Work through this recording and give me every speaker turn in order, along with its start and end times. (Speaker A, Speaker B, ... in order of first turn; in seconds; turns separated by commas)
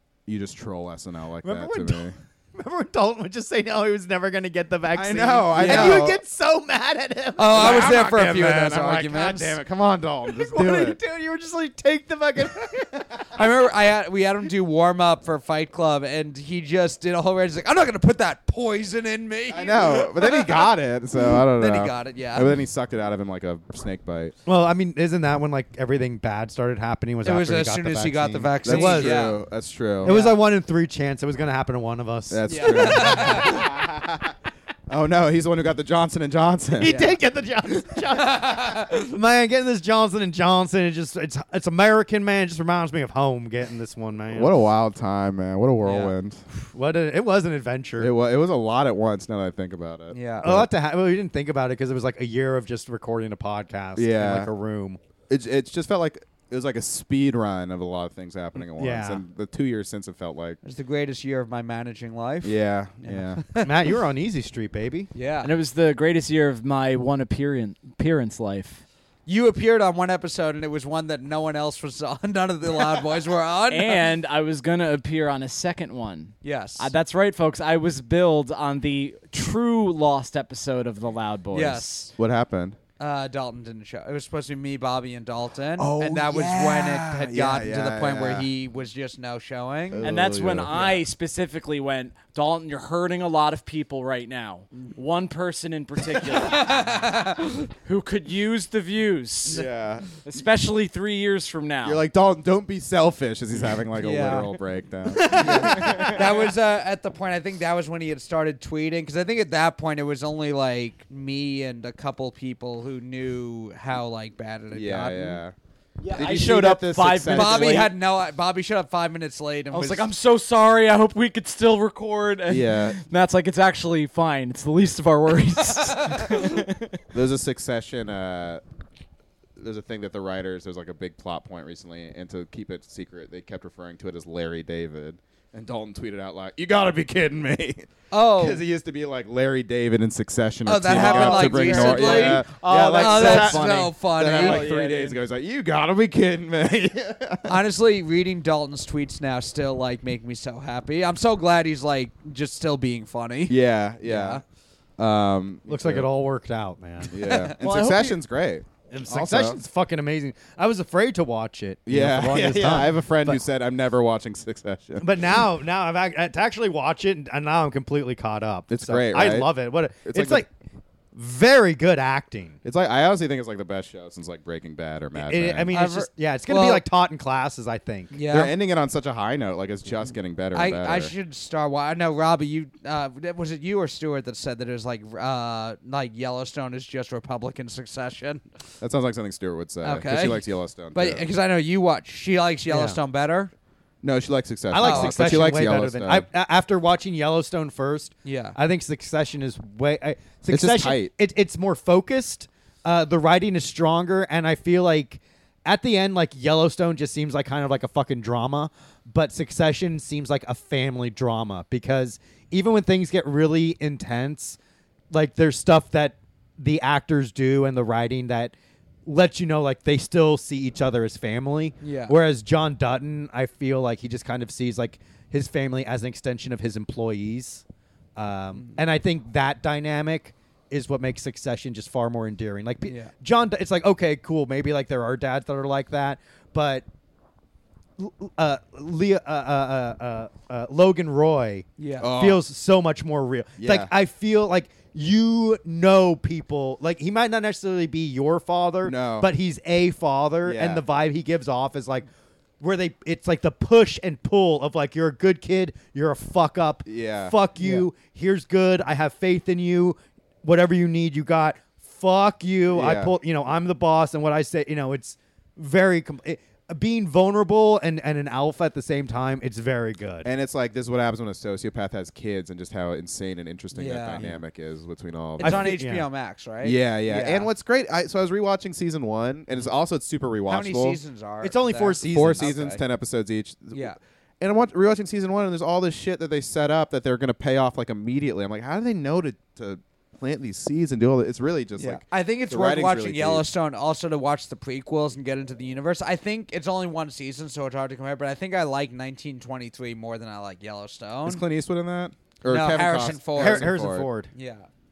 Speaker A: 0.3-2.1, Speaker B: 1.4-8.0, Speaker A: 4.9-6.2, Speaker C: 5.5-6.0, Speaker C: 7.4-9.6, Speaker A: 7.5-11.0, Speaker B: 10.3-13.2, Speaker C: 13.3-20.7, Speaker A: 19.5-24.3, Speaker C: 21.2-22.5, Speaker B: 24.4-29.3, Speaker C: 27.2-29.4, Speaker A: 28.6-30.1, Speaker B: 30.0-33.8, Speaker C: 30.0-30.4, Speaker A: 32.3-34.3, Speaker C: 32.5-33.7, Speaker A: 34.9-37.0, Speaker B: 36.8-44.5, Speaker C: 36.8-37.2, Speaker C: 38.1-38.8, Speaker A: 44.3-46.4, Speaker C: 45.8-46.1, Speaker B: 46.5-48.1, Speaker A: 48.0-50.7, Speaker C: 50.1-50.5, Speaker B: 50.4-55.0, Speaker A: 54.0-54.5, Speaker A: 55.3-60.6, Speaker B: 58.8-59.2, Speaker C: 60.6-63.7, Speaker A: 62.4-63.4, Speaker B: 63.6-65.1, Speaker C: 65.1-65.5, Speaker D: 65.4-68.8, Speaker C: 69.3-74.0, Speaker D: 73.7-81.9, Speaker C: 76.4-76.9, Speaker C: 81.5-82.1, Speaker A: 82.2-82.8, Speaker C: 83.0-90.0, Speaker A: 85.8-88.5, Speaker A: 89.9-91.0, Speaker D: 90.0-97.1, Speaker C: 96.3-97.7, Speaker D: 97.8-102.0, Speaker A: 99.5-100.0, Speaker A: 101.8-106.4, Speaker C: 104.0-104.5, Speaker C: 105.2-115.4, Speaker D: 105.4-106.2, Speaker A: 114.7-115.5, Speaker D: 116.0-117.9, Speaker A: 116.1-117.9, Speaker C: 117.3-120.1, Speaker D: 119.7-127.0, Speaker A: 122.5-123.0, Speaker C: 126.0-126.4, Speaker A: 127.1-128.6, Speaker A: 129.6-147.6, Speaker C: 138.1-138.6, Speaker C: 140.7-144.7, Speaker D: 140.9-145.2, Speaker C: 147.4-154.4, Speaker A: 153.5-154.4, Speaker A: 155.0-156.1, Speaker B: 155.7-157.3, Speaker A: 157.0-159.6, Speaker C: 157.2-157.5, Speaker D: 157.6-158.2, Speaker B: 158.9-163.4, Speaker A: 161.9-165.4, Speaker B: 165.0-170.5, Speaker A: 168.7-170.4, Speaker B: 171.1-172.6, Speaker A: 172.6-175.7, Speaker B: 175.2-178.1, Speaker C: 175.7-176.8, Speaker C: 178.1-178.5, Speaker A: 178.3-181.1, Speaker C: 180.5-188.4, Speaker A: 188.8-191.2, Speaker C: 189.8-193.5, Speaker B: 192.7-193.0, Speaker A: 194.0-196.3, Speaker B: 194.7-214.6, Speaker C: 194.8-195.2, Speaker C: 198.2-198.6, Speaker A: 200.5-201.1, Speaker B: 215.1-218.5, Speaker B: 219.0-227.6, Speaker C: 221.8-222.2, Speaker B: 228.2-236.8, Speaker C: 232.8-233.1, Speaker B: 238.0-252.1, Speaker C: 241.8-242.1, Speaker A: 242.0-242.4, Speaker A: 243.6-243.9, Speaker A: 248.8-249.3, Speaker A: 250.4-250.8, Speaker B: 252.6-270.3, Speaker A: 256.9-257.4, Speaker C: 257.6-257.9, Speaker A: 262.7-263.1, Speaker A: 270.2-275.7, Speaker C: 273.7-274.2, Speaker C: 275.4-277.5, Speaker B: 275.4-276.1, Speaker A: 276.6-281.0, Speaker C: 280.5-282.8, Speaker B: 281.4-282.6, Speaker A: 282.1-293.4, Speaker C: 283.7-284.0, Speaker C: 291.8-301.4, Speaker A: 301.2-304.1, Speaker C: 302.5-303.7, Speaker B: 303.4-304.3, Speaker C: 304.3-304.7